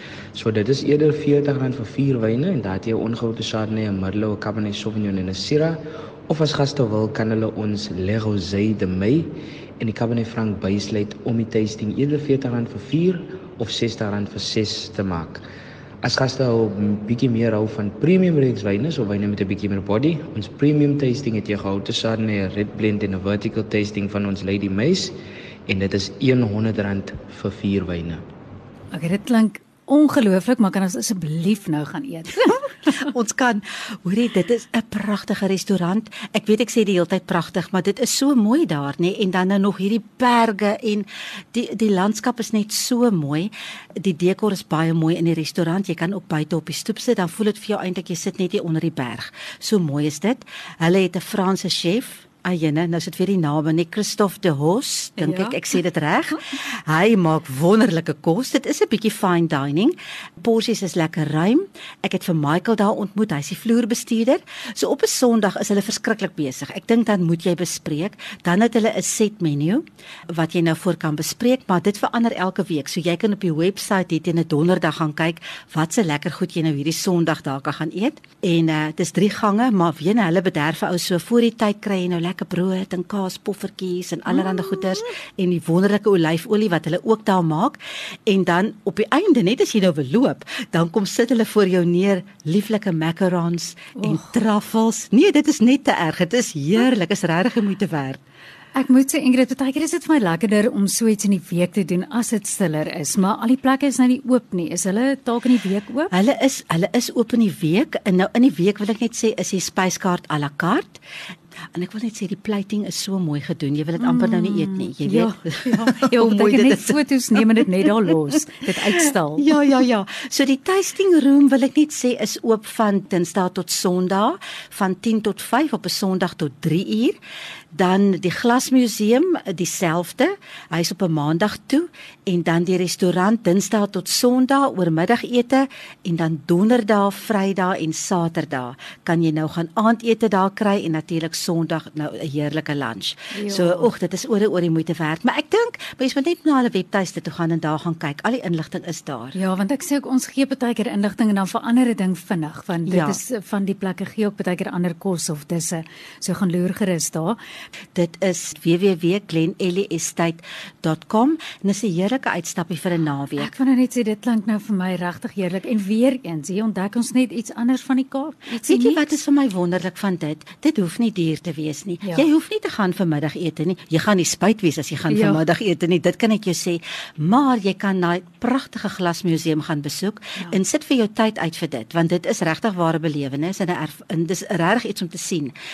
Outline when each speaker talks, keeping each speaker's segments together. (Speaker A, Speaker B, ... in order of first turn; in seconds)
Speaker A: 0.3-15.4, 16.0-25.1, 25.7-28.2
Speaker B: 28.9-32.6, 55.2-55.6, 84.3-84.8, 94.0-94.3, 98.8-106.1, 114.0-119.5, 143.3-143.9, 149.3-157.4, 163.4-169.1, 175.1-175.4
Speaker C: 32.5-98.2, 106.1-111.0, 111.7-117.4, 119.4-127.2, 127.7-149.4, 152.8-153.2, 157.9-163.5, 168.6-185.5